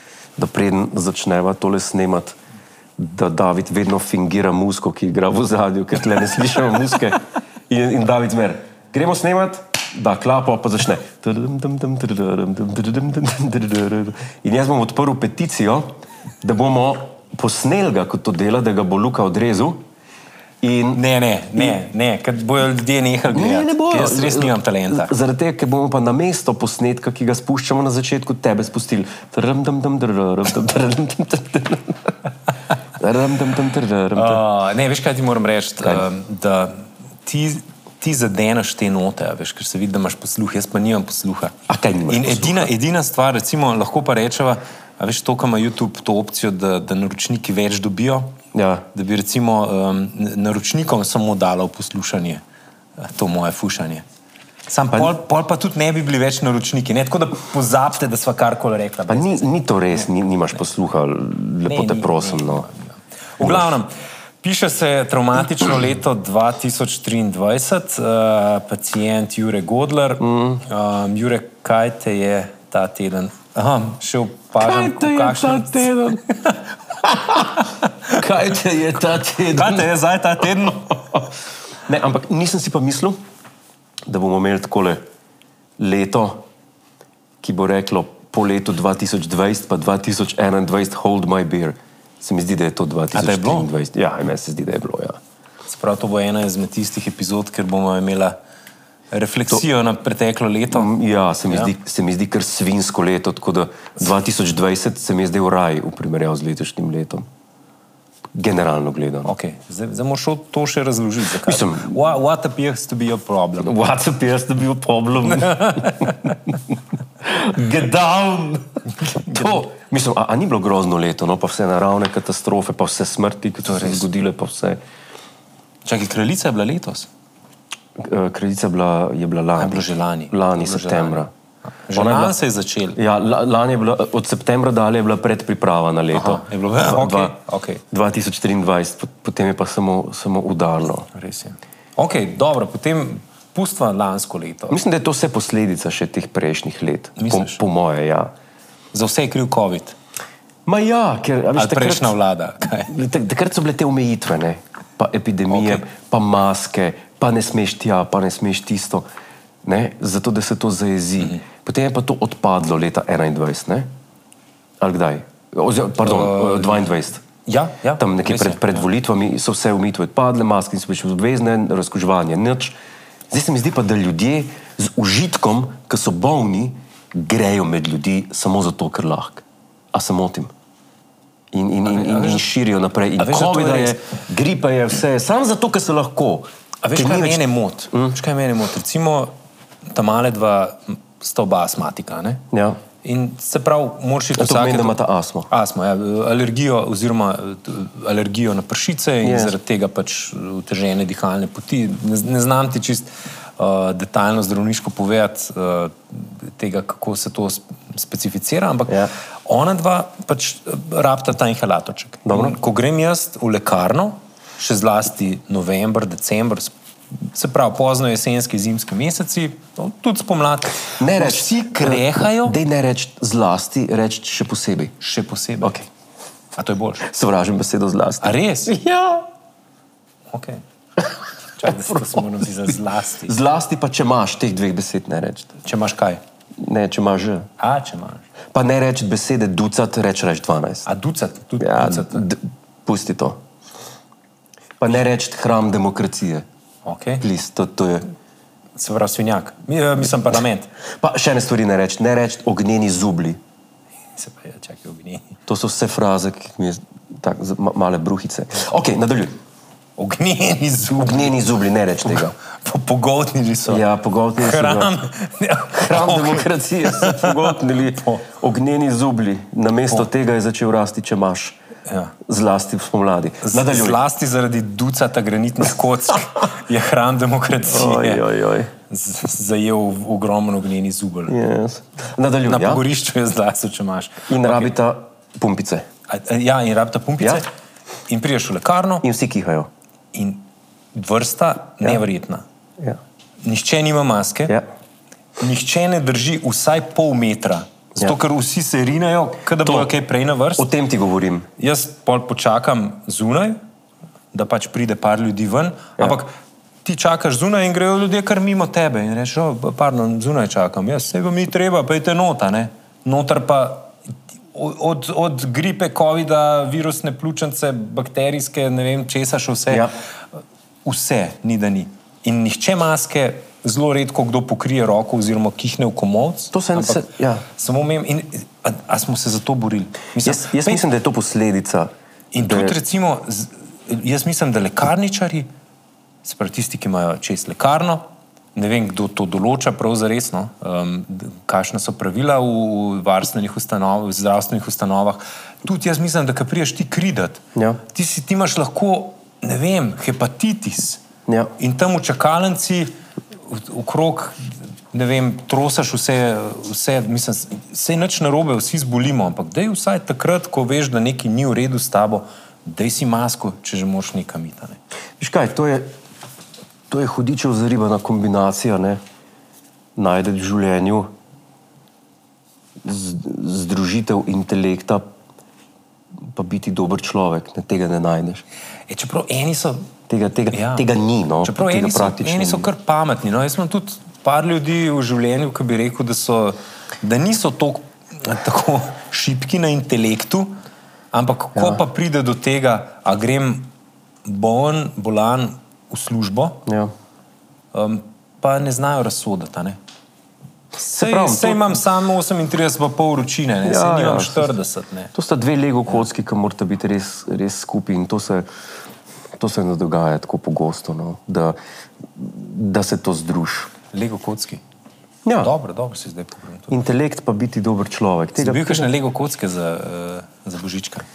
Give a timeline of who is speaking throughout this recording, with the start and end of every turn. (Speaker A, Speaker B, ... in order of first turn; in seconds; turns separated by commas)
Speaker A: 0.3-2.4, Speaker A: 3.0-15.9, Speaker A: 16.4-19.8, Speaker A: 20.6-21.0, Speaker B: 20.9-25.1, Speaker A: 23.3-32.1, Speaker A: 33.0-34.4, Speaker B: 34.1-41.5, Speaker A: 41.7-42.7, Speaker B: 42.1-48.4, Speaker A: 48.5-48.9, Speaker B: 48.9-52.4, Speaker B: 53.0-54.0, Speaker B: 54.7-60.0, Speaker A: 59.1-62.7, Speaker B: 61.6-78.2, Speaker A: 63.4-63.7, Speaker A: 70.2-70.6, Speaker A: 74.6-76.2, Speaker A: 78.1-79.9, Speaker B: 79.5-81.2, Speaker A: 81.9-83.2, Speaker A: 84.1-85.0, Speaker A: 85.8-86.4, Speaker A: 87.4-95.2, Speaker B: 93.1-93.7, Speaker B: 95.7-98.3, Speaker B: 99.1-100.9, Speaker A: 100.7-107.2, Speaker A: 108.3-109.3, Speaker B: 109.2-113.8, Speaker A: 111.4-112.0, Speaker A: 113.6-124.8, Speaker B: 115.3-116.3, Speaker B: 119.0-119.6, Speaker B: 123.7-124.1, Speaker B: 125.8-127.1, Speaker A: 128.0-131.3, Speaker B: 129.6-131.3, Speaker B: 131.8-133.0, Speaker A: 131.9-132.3, Speaker A: 132.9-137.4, Speaker B: 136.1-137.8, Speaker A: 137.9-141.1, Speaker B: 141.1-144.8, Speaker A: 144.7-148.3, Speaker B: 147.2-147.6, Speaker B: 148.9-149.9, Speaker A: 150.7-152.1, Speaker B: 151.6-153.0, Speaker A: 152.9-159.0, Speaker B: 155.5-155.8, Speaker A: 159.6-163.9, Speaker A: 164.8-167.2, Speaker B: 166.0-166.9, Speaker B: 167.4-168.8, Speaker A: 168.0-172.7, Speaker A: 173.3-180.5, Speaker A: 181.5-188.1, Speaker B: 181.8-182.4, Speaker B: 183.2-184.0, Speaker B: 186.8-189.3, Speaker B: 189.9-192.4, Speaker A: 192.5-192.8, Speaker B: 193.0-195.0, Speaker A: 194.3-195.5, Speaker B: 195.5-222.6, Speaker A: 199.2-199.5, Speaker A: 208.9-209.1, Speaker A: 212.2-212.6, Speaker A: 221.0-224.9, Speaker B: 225.0-225.8, Speaker B: 226.6-227.1, Speaker A: 227.0-229.3, Speaker B: 228.2-228.8, Speaker B: 230.3-230.6, Speaker B: 231.6-233.3, Speaker A: 231.6-235.6, Speaker B: 235.6-236.2, Speaker A: 236.6-237.5, Speaker B: 237.6-238.2, Speaker A: 238.5-240.9, Speaker B: 240.8-242.3, Speaker A: 241.6-243.4, Speaker A: 244.8-246.4, Speaker B: 246.8-247.2, Speaker A: 247.2-248.0, Speaker B: 248.8-250.7, Speaker A: 251.0-253.4, Speaker B: 254.2-255.4, Speaker A: 255.5-259.3, Speaker B: 260.0-261.4, Speaker A: 260.9-262.3, Speaker B: 262.1-263.8, Speaker A: 263.6-264.9, Speaker B: 264.4-268.3, Speaker A: 265.7-271.6, Speaker B: 271.9-272.1, Speaker A: 272.2-274.0, Speaker B: 273.4-278.2, Speaker A: 277.6-278.7, Speaker B: 278.9-281.4, Speaker A: 281.3-282.8, Speaker B: 282.4-284.7, Speaker A: 284.3-285.9, Speaker B: 286.1-287.5, Speaker B: 288.1-289.1, Speaker A: 289.0-289.7, Speaker B: 290.1-292.4, Speaker B: 293.4-294.6, Speaker B: 295.4-300.7, Speaker A: 299.6-299.9, Speaker A: 300.6-301.5, Speaker B: 301.6-303.6, Speaker B: 304.3-306.3, Speaker B: 306.8-313.9, Speaker B: 314.5-319.9, Speaker B: 320.8-330.8, Speaker A: 326.5-327.4, Speaker A: 330.2-332.8, Speaker B: 332.3-335.5, Speaker B: 336.2-338.0, Speaker B: 338.5-351.0, Speaker A: 347.5-347.8, Speaker A: 351.3-351.5, Speaker B: 351.6-352.9, Speaker B: 353.4-364.8, Speaker A: 365.2-365.9, Speaker A: 366.9-369.0, Speaker A: 369.9-371.1, Speaker A: 372.8-375.0, Speaker A: 376.2-378.4, Speaker B: 378.9-379.9, Speaker A: 380.1-382.7, Speaker B: 380.5-380.9, Speaker B: 381.4-390.5, Speaker B: 391.1-393.7, Speaker A: 391.5-391.8, Speaker B: 394.2-396.6, Speaker A: 396.6-396.9, Speaker B: 397.7-399.8, Speaker B: 400.8-405.1, Speaker A: 400.8-401.8, Speaker A: 403.6-404.6, Speaker A: 405.1-408.5, Speaker A: 409.4-411.6, Speaker A: 412.1-413.7, Speaker B: 413.9-414.6, Speaker A: 415.2-415.5, Speaker B: 415.4-416.8, Speaker A: 416.7-418.9, Speaker B: 418.4-421.1